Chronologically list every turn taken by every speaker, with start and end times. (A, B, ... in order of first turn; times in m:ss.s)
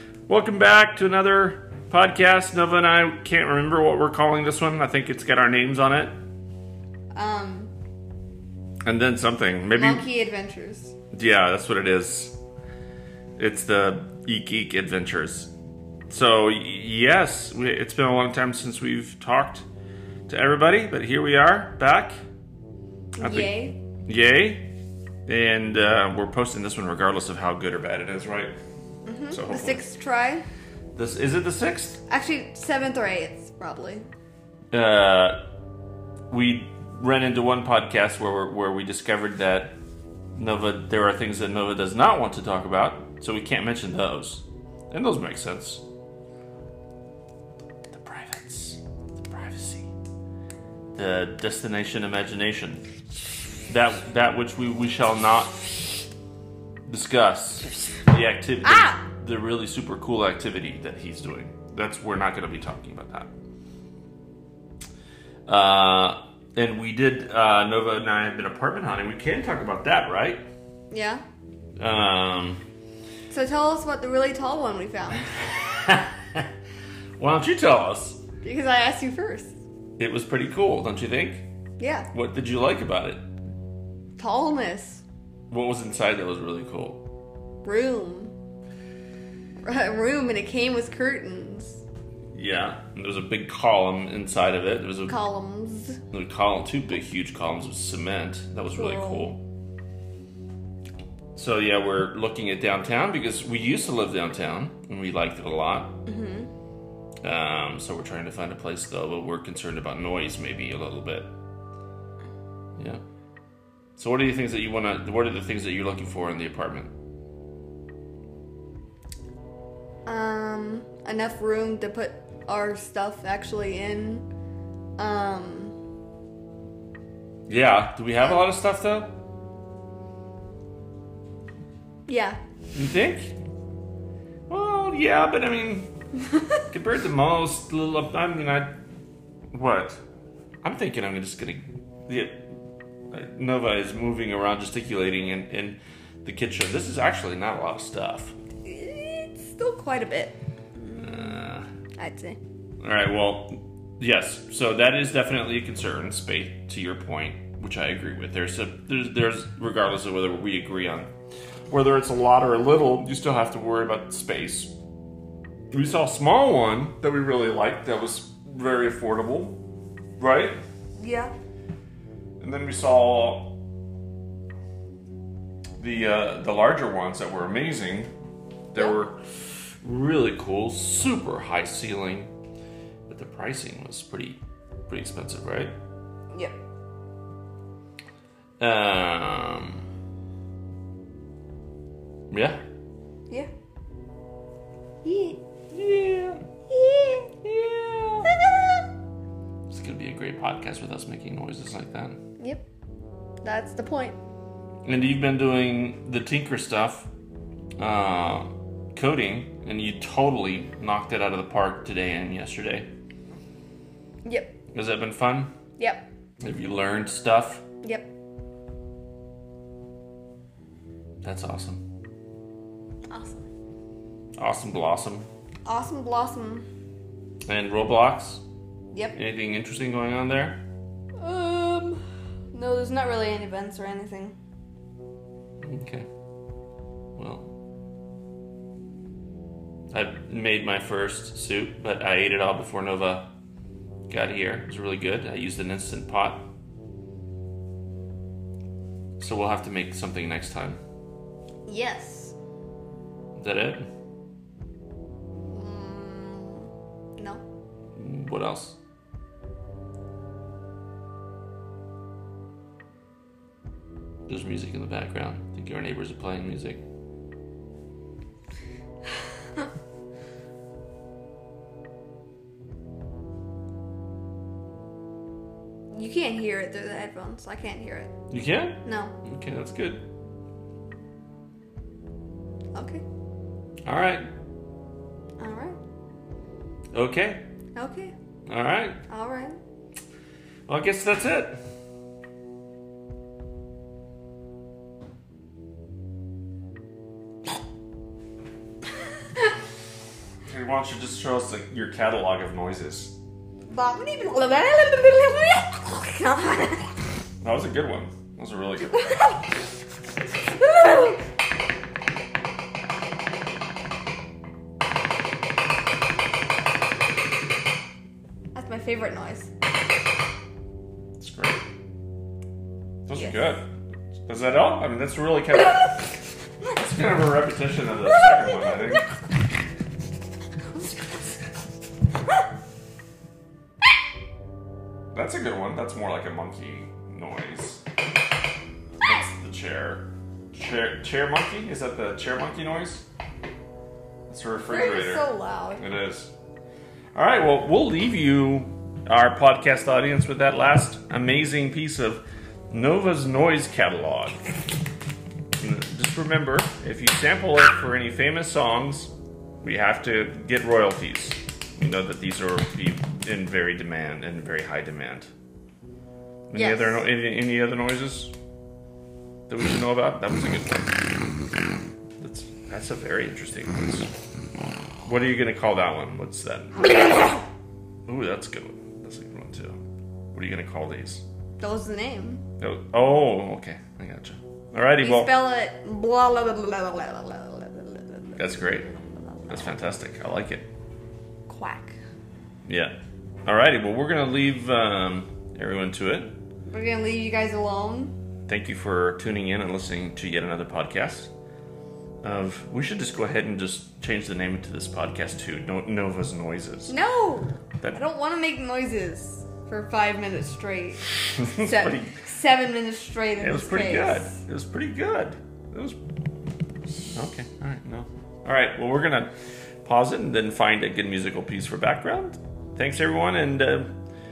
0:00.3-0:06.2 A
0:07.1-0:07.7 B
0:08.8-0:10.1 A
0:09.7-0:10.9 B
0:11.1-0:12.4 A
0:13.4-0:15.5 A
0:16.1-0:19.6 A
0:20.3-0:22.2 A
0:23.1-0:23.8 B
0:23.2-0:23.5 A
0:24.0-0:24.6 A
0:25.2-0:28.5 A
0:29.0-0:30.4 B
0:29.3-0:29.8 A
0:30.9-0:32.0 A
0:32.1-0:34.0 B
0:34.7-0:35.4 A
0:36.3-0:39.8 A
0:40.3-0:45.8 A
0:47.9-0:49.9 A
0:50.9-0:52.8 A
0:53.7-0:55.5 A
0:56.9-1:03.3 A
0:58.6-0:59.0 B
1:05.5-1:10.4 A
1:10.9-1:11.2 B
1:11.8-1:12.6 A
1:13.3-1:15.3 B
1:15.3-1:16.5 A
1:17.2-1:18.2 A
1:18.4-1:19.5 B
1:20.0-1:21.4 A
1:21.8-1:22.1 B
1:22.1-1:23.2 A
1:24.2-1:25.0 B
1:25.5-1:27.0 A
1:27.6-1:28.3 B
1:29.6-1:31.8 B
1:32.3-1:35.2 A
1:35.1-1:36.0 B
1:36.1-1:39.4 A
1:38.7-1:39.3 B
1:41.3-1:46.0 A
1:46.0-1:46.5 B
1:47.2-1:51.3 A
1:52.8-1:53.0 A
1:54.0-1:56.9 A
2:00.0-2:04.2 B
2:05.0-2:05.8 B
2:07.5-2:09.1 A
2:12.1-2:12.4 B
2:12.7-2:13.3 A
2:14.5-2:15.9 A
2:16.7-2:18.8 A
2:19.5-2:20.0 A
2:20.6-2:22.5 A
2:23.1-2:28.3 A
2:28.6-2:31.4 B
2:31.0-2:31.6 A
2:32.0-2:32.4 B
2:32.8-2:41.1 A
2:41.7-2:44.7 A
2:45.7-2:49.6 A
2:50.2-2:50.6 A
2:51.0-2:51.3 B
2:52.4-2:53.5 A
2:55.8-2:58.1 A
2:58.7-2:59.2 A
2:59.8-3:02.3 A
3:03.1-3:05.7 A
3:06.3-3:06.6 B
3:08.6-3:09.8 A
3:12.3-3:12.6 A
3:15.0-3:15.4 B
3:15.7-3:16.4 A
3:16.7-3:17.4 B
3:17.4-3:18.3 A
3:18.3-3:18.7 B
3:19.7-3:22.2 A
3:23.4-3:24.2 B
3:24.8-3:27.1 A
3:27.8-3:32.9 A
3:34.2-3:34.5 B
3:34.7-3:35.5 A
3:36.4-3:37.6 A
3:41.2-3:41.8 A
3:43.1-3:43.4 B
3:44.4-3:45.3 A
3:45.6-3:46.6 B
3:47.5-3:48.4 A
3:49.1-3:50.6 A
3:51.2-3:54.4 B
3:55.6-3:56.1 A
3:57.2-3:57.5 A
3:59.9-4:03.3 A
4:04.1-4:06.5 A
4:09.2-4:10.8 A
4:11.7-4:12.3 B
4:13.4-4:13.9 A
4:15.5-4:17.4 B
4:18.0-4:18.8 A
4:24.3-4:26.8 A
4:35.9-4:38.1 B
4:38.3-4:40.0 A
4:38.8-4:39.1 B
4:42.7-4:43.0 B
4:43.8-4:44.3 A
4:45.4-4:45.8 B
4:46.9-4:47.4 A
4:47.7-4:48.1 B
4:48.5-4:49.0 A
4:49.1-4:49.6 B
4:50.7-4:51.6 A
5:00.4-5:03.2 A
5:03.7-5:07.0 B
5:07.4-5:09.1 A
5:09.0-5:09.4 B
5:10.5-5:11.2 B
5:18.5-5:19.5 B
5:21.2-5:21.6 A
5:23.0-5:23.7 A
5:23.1-5:23.4 B
5:24.3-5:26.1 A
5:26.7-5:29.1 A
5:35.1-5:37.8 A
5:39.0-5:43.0 A
5:44.3-5:46.3 A
5:44.7-5:45.8 B
5:47.1-5:54.4 A
5:55.6-6:05.3 A
6:06.5-6:08.3 A
6:06.5-6:07.0 B
6:09.5-6:11.1 A
6:12.2-6:14.1 A
6:15.0-6:17.0 A
6:18.0-6:19.8 A
6:20.3-6:21.2 A
6:21.6-6:22.4 B
6:22.6-6:25.4 A
6:25.0-6:29.7 B
6:28.4-6:28.9 A
6:29.5-6:30.6 A
6:31.5-6:32.0 B
6:32.7-6:32.9 A
6:33.4-6:36.3 A
6:36.7-6:38.1 B
6:38.5-6:41.3 A
6:42.2-6:46.9 A
6:46.9-6:54.4 B
6:51.3-6:52.1 A
6:53.4-6:56.0 A
6:57.0-7:03.9 A